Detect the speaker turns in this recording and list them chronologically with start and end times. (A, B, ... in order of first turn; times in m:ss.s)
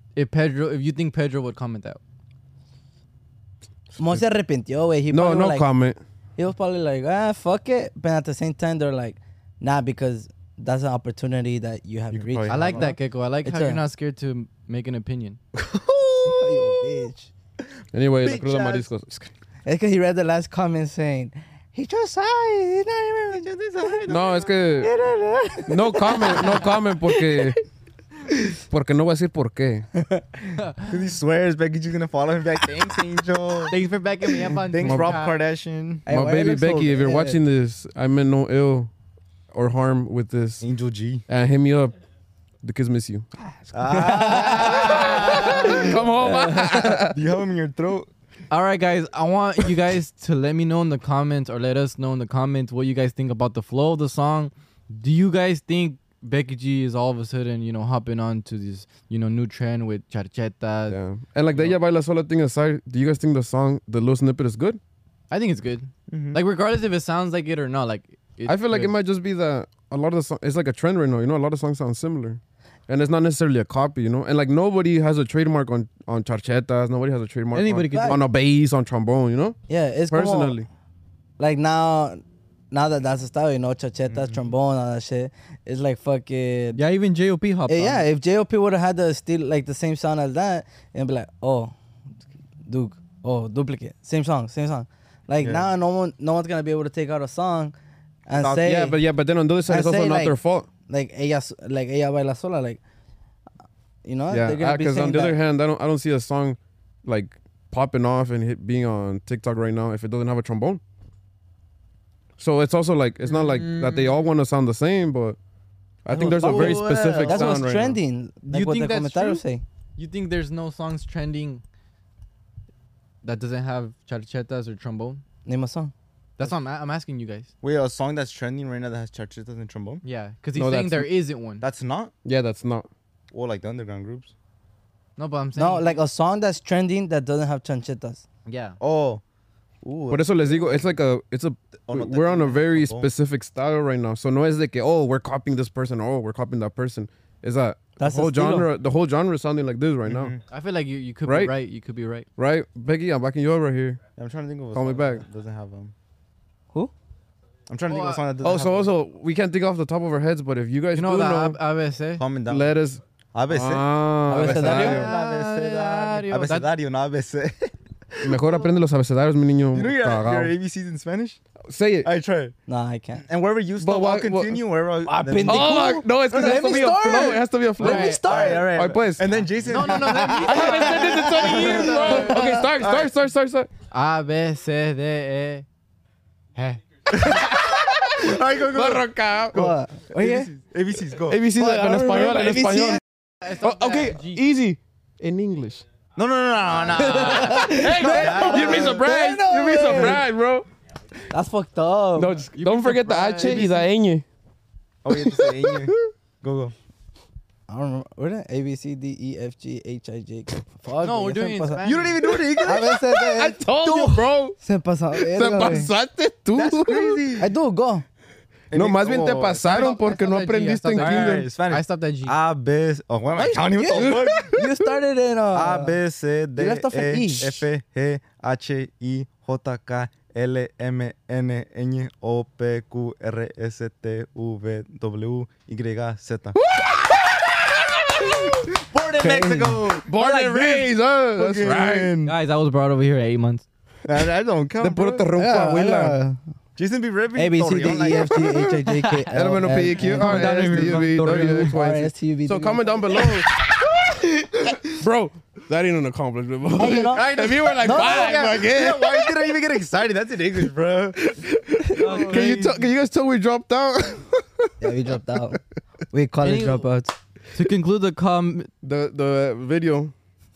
0:00.1-0:02.0 A
0:03.9-0:04.2 B
0:04.0-0:05.7 C
0:05.1-0:06.0 B
0:06.4-0:13.8 C
0:12.1-0:12.9 D
0:12.5-0:15.4 A
0:15.6-0:16.9 D
0:16.2-0:17.3 C
0:17.9-0:19.3 B
0:18.2-0:18.9 D
0:19.6-0:24.0 C
0:23.4-0:24.5 D
0:24.1-0:24.9 B
0:24.8-0:27.6 C
0:25.7-0:27.6 B
0:28.7-0:29.9 B
0:30.8-0:33.7 D
0:33.7-0:35.4 A
0:34.7-0:36.0 D
0:34.8-0:35.2 B
0:36.0-0:37.4 C
0:36.1-0:38.9 B
0:39.5-0:40.6 B
0:40.6-0:41.2 D
0:41.3-0:41.9 B
0:42.6-0:43.3 B
0:43.7-0:46.0 D
0:43.9-0:45.0 C
0:44.3-0:47.2 B
0:45.7-0:46.9 C
0:47.0-0:48.1 D
0:48.5-1:01.0 A
1:00.9-1:04.8 B
1:05.3-1:08.9 A
1:06.1-1:06.4 D
1:08.4-1:19.6 B
1:17.5-1:18.2 A
1:17.9-1:18.2 C
1:19.7-1:20.6 C
1:20.1-1:20.7 B
1:21.4-1:26.8 C
1:24.1-1:24.4 D
1:26.8-1:28.1 A
1:27.7-1:31.7 C
1:32.6-1:37.7 C
1:35.4-1:35.7 D
1:38.3-1:39.0 C
1:38.5-1:40.7 B
1:39.6-1:42.8 C
1:44.0-1:45.4 C
1:44.3-1:50.8 B
1:52.4-1:55.4 B
1:53.2-1:54.1 A
1:56.0-1:58.0 B
1:56.1-1:59.6 C
1:56.4-1:57.6 D
1:58.5-1:59.4 A
2:00.0-2:01.6 A
2:03.2-2:05.2 A
2:05.4-2:05.9 C
2:06.4-2:07.5 A
2:07.6-2:10.0 D
2:10.0-2:11.6 A
2:10.5-2:11.1 B
2:11.6-2:12.1 D
2:12.2-2:12.9 B
2:13.3-2:14.3 D
2:15.2-2:16.0 A
2:15.6-2:18.2 C
2:18.4-2:18.8 A
2:18.8-2:19.2 D
2:19.8-2:20.9 D
2:20.1-2:30.3 B
2:21.9-2:23.1 D
2:28.0-2:28.7 C
2:30.1-2:30.4 D
2:30.5-2:32.3 A
2:31.2-2:31.5 B
2:32.4-2:34.0 B
2:34.2-2:35.9 D
2:34.7-2:35.2 B
2:37.7-2:38.9 D
2:37.9-2:38.2 A
2:38.4-2:41.6 B
2:40.9-2:42.2 A
2:42.2-2:42.7 D
2:42.5-2:45.1 B
2:43.3-2:48.6 D
2:44.3-2:45.0 C
2:44.6-2:46.7 A
2:48.2-2:50.5 B
2:49.7-2:51.4 D
2:51.7-2:52.1 B
2:52.0-2:52.6 D
2:52.7-2:53.2 C
2:53.2-2:57.3 D
2:53.8-2:54.6 B
2:55.0-2:58.8 C
2:55.4-2:59.3 B
2:57.8-3:03.1 D
2:59.6-3:02.4 A
3:00.2-3:01.7 C
3:00.4-3:03.7 B
3:02.3-3:02.7 C
3:03.9-3:05.6 A
3:06.5-3:06.8 A
3:07.1-3:11.4 D
3:07.2-3:09.7 B
3:09.5-3:10.5 C
3:11.3-3:15.8 B
3:11.6-3:13.0 C
3:13.4-3:14.4 A
3:16.2-3:19.0 D
3:17.0-3:20.2 C
3:17.1-3:20.7 B
3:21.3-3:22.4 C
3:22.2-3:24.2 B
3:22.5-3:23.8 A
3:23.4-3:23.8 D
3:25.0-3:26.7 D
3:25.1-3:26.1 B
3:27.7-3:31.8 C
3:31.0-3:32.2 A
3:31.8-3:34.1 D
3:32.6-3:35.9 C
3:32.8-3:34.6 B
3:35.2-3:37.2 B
3:36.5-3:37.5 D
3:37.4-3:38.0 C
3:38.7-3:39.9 D
3:38.7-3:41.5 B
3:39.6-3:42.4 A
3:41.0-3:44.6 D
3:43.3-3:46.0 C
3:44.0-3:44.4 B
3:45.5-3:56.6 D
3:46.6-3:47.6 C
3:56.6-3:58.5 B
3:58.2-4:02.3 D
3:59.2-3:59.8 C
4:00.0-4:02.1 B
4:02.2-4:03.6 A
4:04.0-4:05.3 D
4:04.8-4:06.2 B
4:05.3-4:06.4 C
4:06.8-4:08.6 D
4:07.3-4:12.8 C
4:08.3-4:13.5 B
4:10.0-4:11.7 A
4:15.0-4:19.6 B
4:16.8-4:18.4 C
4:17.8-4:21.3 D
4:21.2-4:24.7 B
4:22.0-4:22.8 A
4:22.0-4:22.7 D
4:24.8-4:25.6 C
4:26.1-4:27.1 C
4:26.4-4:26.9 A
4:27.5-4:28.7 A
4:28.8-4:30.1 B